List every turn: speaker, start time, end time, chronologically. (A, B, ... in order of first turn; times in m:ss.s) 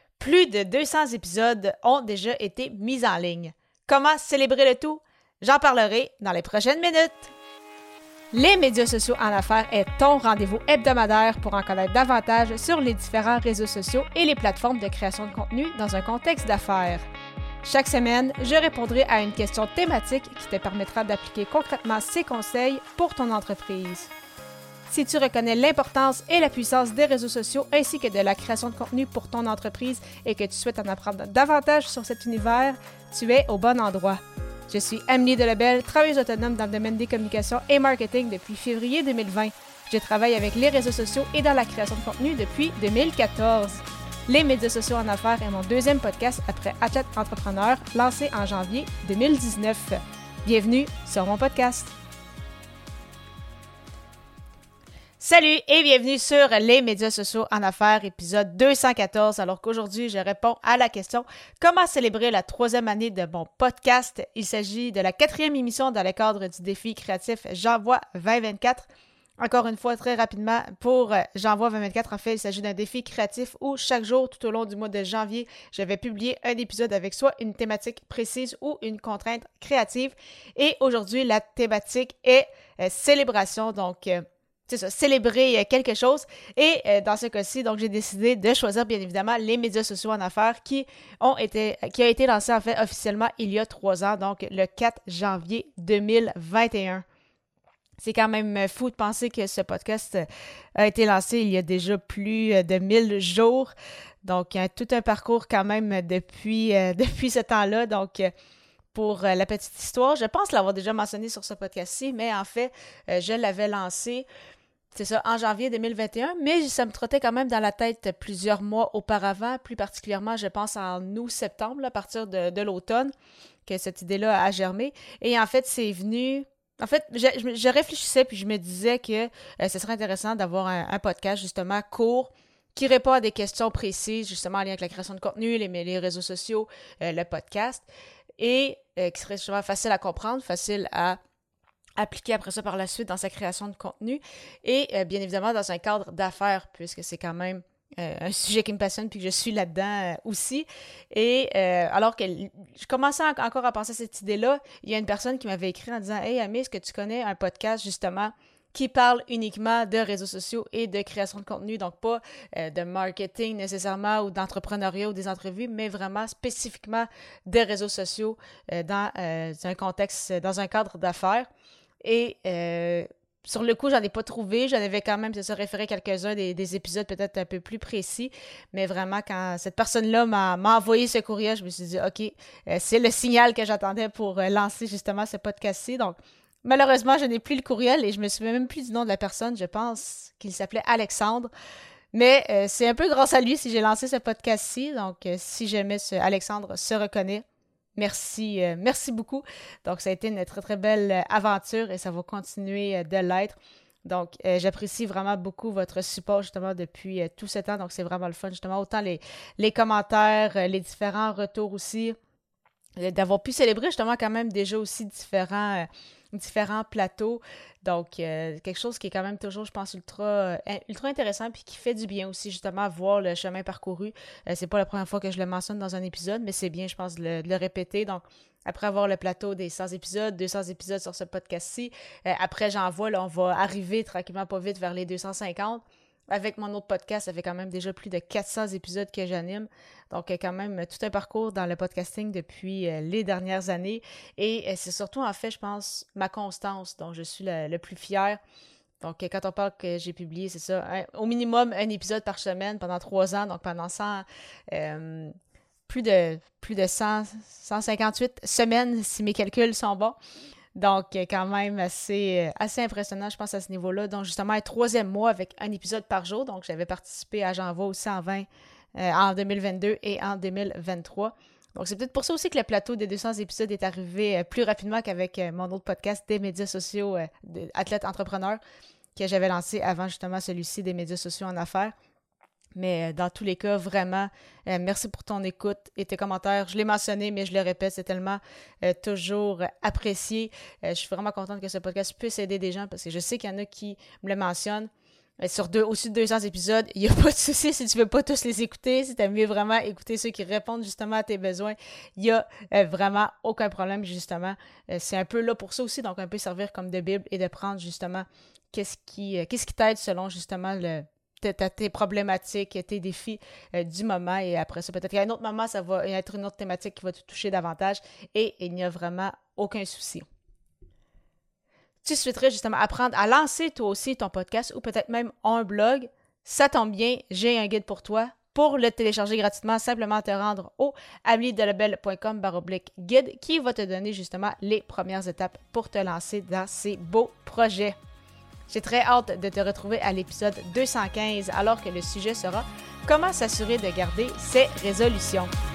0:00.2-0:07.3 A
0:08.3-0:17.1 A
0:17.6-0:24.1 A
0:24.9-0:51.9 A
0:55.2-1:08.9 A
1:09.4-1:37.0 A
1:38.0-1:48.3 A
1:48.9-1:54.2 A
1:54.9-2:03.1 A
2:03.7-2:17.8 A
2:18.4-2:21.2 A
2:22.0-2:51.5 A
2:52.0-3:11.5 A
3:12.1-3:17.4 A
3:18.0-3:32.2 A
3:33.0-4:08.4 A
4:09.0-4:15.4 A
4:15.9-4:20.2 A
4:20.8-4:38.6 A
4:39.2-4:41.9 A
4:42.8-4:54.9 A
4:55.4-5:20.2 A
5:22.0-5:38.0 A
5:38.7-5:45.5 A